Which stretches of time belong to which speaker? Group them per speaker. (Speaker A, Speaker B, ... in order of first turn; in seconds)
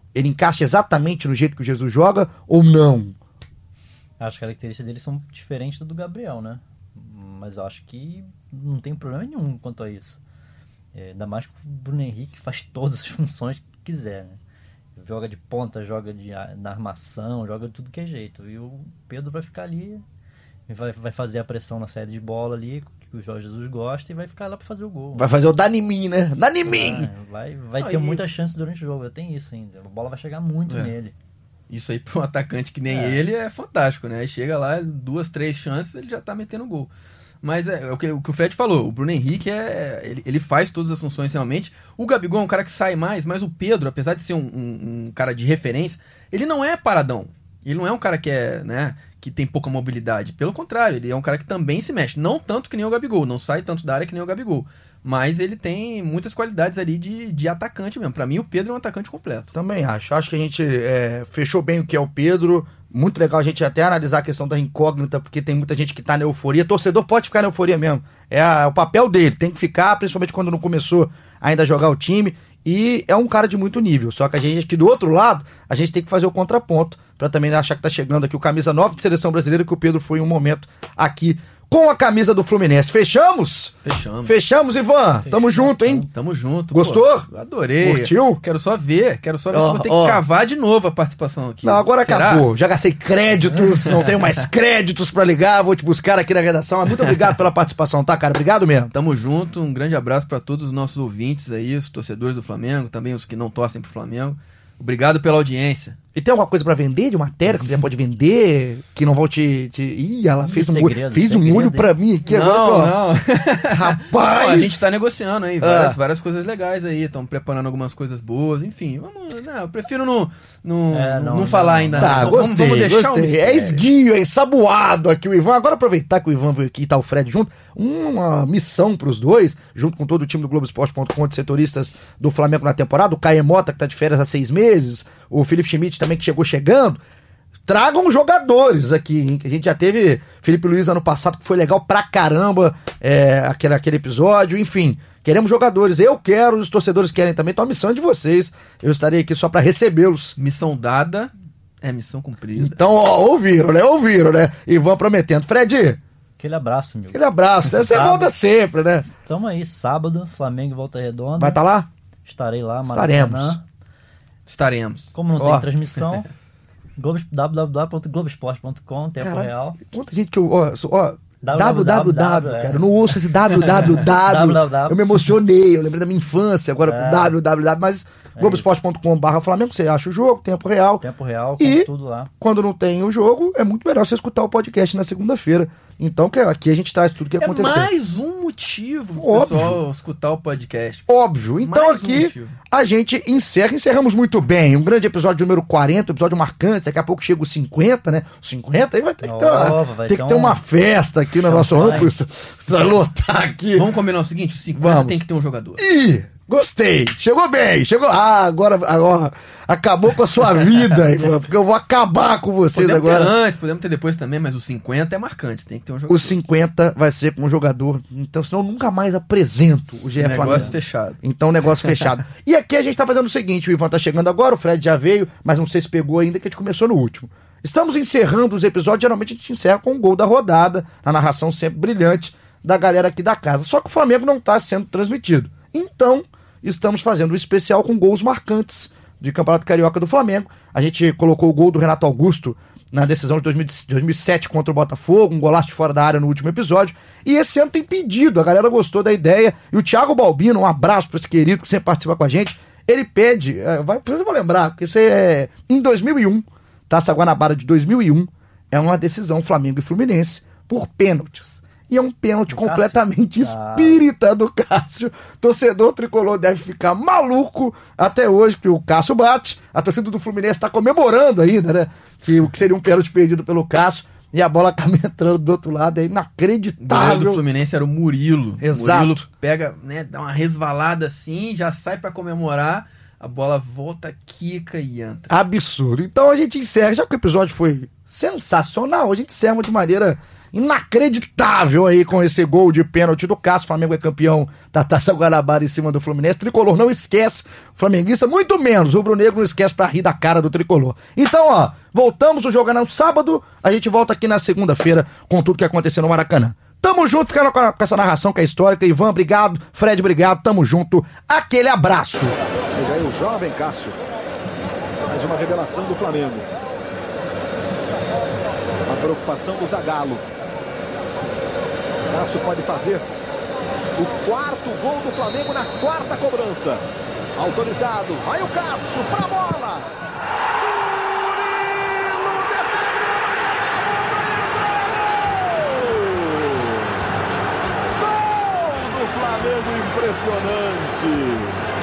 Speaker A: 0.1-3.2, 25.2-27.1, 59.5-86.1, 86.7-87.3, 87.8-88.4, 89.5-90.2, 91.6-98.9, 106.2-113.0, 113.7-114.8, 115.6-116.0, 122.0-137.0, 137.7-150.3, 152.6-156.0, 157.1-159.1, 161.4-161.9, 162.9-163.6, 165.4-165.7, 169.2-181.1, 181.6-181.9, 182.4-187.9, 189.2-189.8, 191.1-203.9, 204.8-205.2, 205.8-213.3, 216.1-277.4, 278.6-279.2, 285.3-312.4
Speaker B: 4.2-10.2, 10.9-14.4, 15.0-20.0, 20.7-25.3, 26.6-31.1, 32.9-33.2, 85.2-86.1, 110.5-111.9, 120.9-122.4, 156.4-158.3, 159.0-161.6, 162.3-163.6, 165.1-166.3, 167.0-169.8, 171.4-172.9, 174.2-175.1, 176.8-177.3, 178.4-178.7, 181.0-182.3, 199.2-200.6, 201.4-202.1, 262.5-264.1
Speaker C: 27.8-28.2, 31.7-36.9, 37.4-59.5, 83.8-84.3, 86.1-92.5, 93.8-94.3, 98.9-106.0, 112.3-123.9, 150.4-151.3, 151.8-152.8, 164.5-165.1, 187.4-191.1, 191.6-192.6, 201.8-202.1, 203.7-205.8, 212.7-216.4, 220.2-221.2, 276.8-285.3
Speaker D: 312.8-314.0, 315.1-316.5, 318.9-320.3, 322.1-323.1, 324.0-326.9, 327.4-329.9, 330.9-333.2, 334.8-336.9, 338.0-341.6